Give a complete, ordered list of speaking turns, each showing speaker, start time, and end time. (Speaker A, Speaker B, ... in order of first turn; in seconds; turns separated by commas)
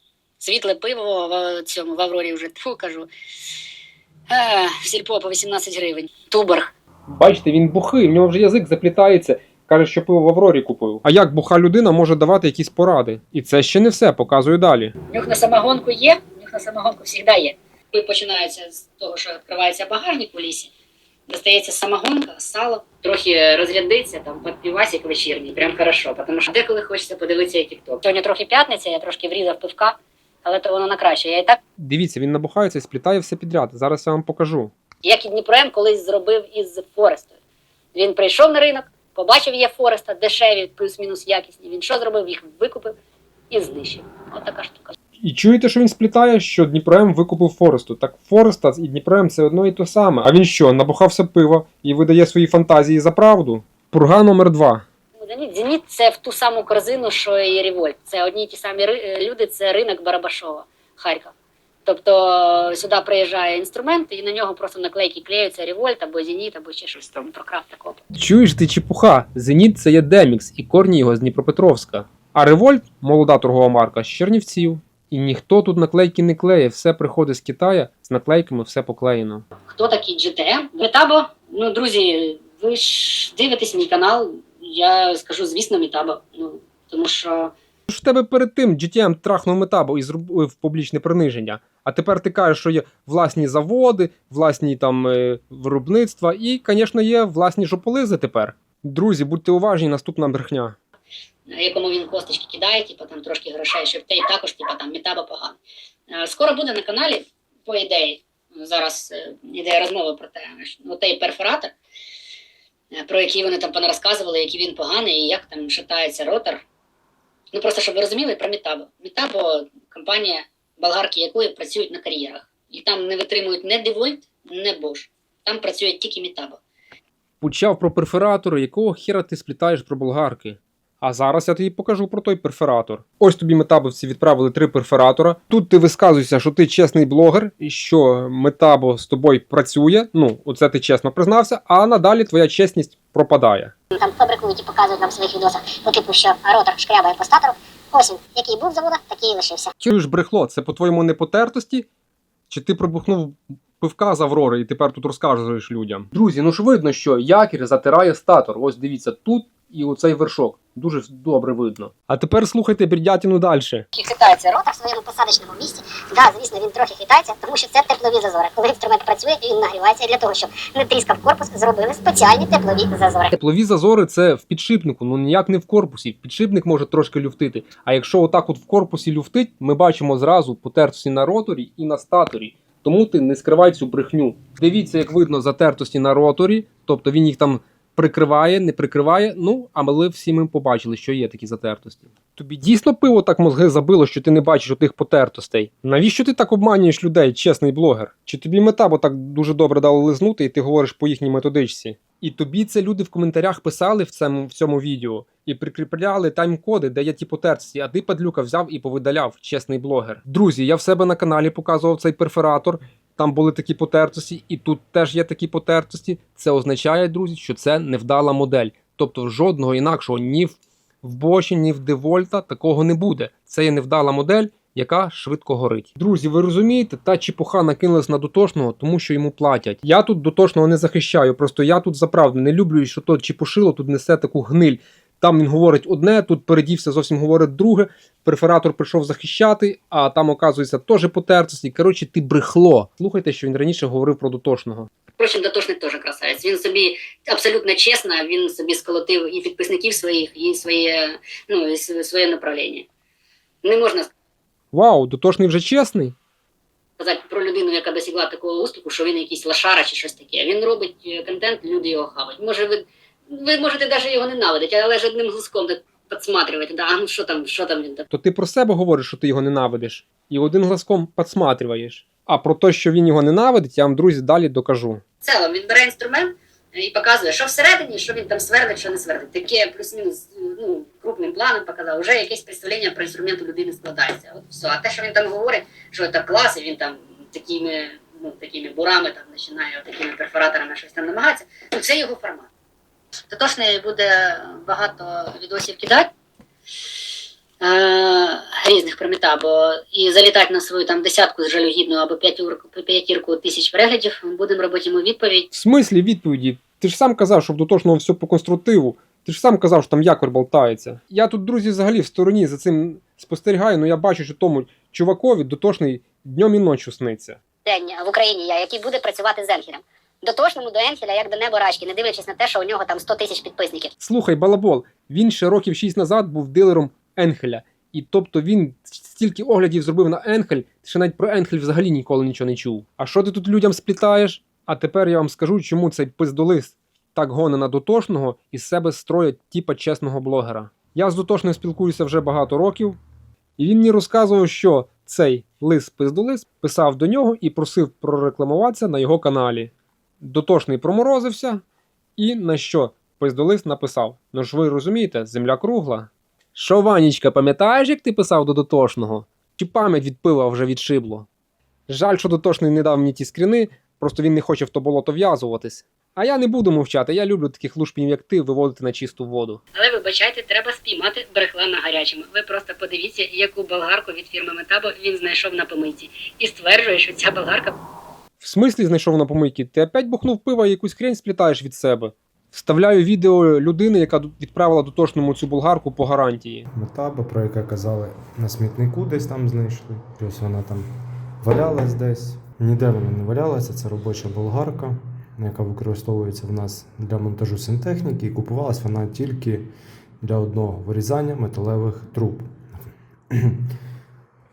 Speaker A: 0.4-3.1, Speaker A: 4.3-6.7, Speaker B: 7.1-14.9, Speaker A: 15.1-20.7, Speaker A: 21.3-31.6, Speaker B: 31.8-34.7, Speaker A: 35.0-37.3, Speaker A: 37.9-42.9, Speaker A: 43.5-44.9, Speaker B: 45.2-54.8, Speaker A: 55.2-61.3, Speaker A: 61.9-68.0, Speaker B: 68.1-79.4, Speaker A: 79.7-87.5, Speaker B: 87.9-100.8, Speaker A: 101.5-105.6, Speaker A: 106.1-111.7, Speaker A: 112.9-116.6, Speaker A: 117.5-126.6, Speaker B: 127.4-143.7, Speaker C: 143.9-149.7, Speaker B: 149.8-151.9, Speaker B: 152.5-163.8, Speaker A: 163.9-164.8, Speaker C: 164.4-173.3, Speaker B: 173.3-244.9, Speaker A: 245.2-252.8, Speaker A: 253.6-254.1, Speaker B: 254.7-256.1, Speaker A: 257.0-268.1, Speaker B: 268.1-275.0, Speaker A: 275.2-292.5, Speaker A: 293.3-296.1, Speaker A: 297.6-305.5, Speaker B: 305.5-317.4, Speaker A: 317.6-323.9, Speaker B: 324.0-343.0, Speaker B: 343.6-351.6, Speaker B: 352.2-361.3, Speaker B: 361.9-369.6, Speaker A: 369.7-377.8, Speaker B: 378.4-386.7, Speaker D: 386.7-390.9, Speaker D: 391.4-399.7, Speaker D: 400.2-402.6, Speaker D: 403.3-403.6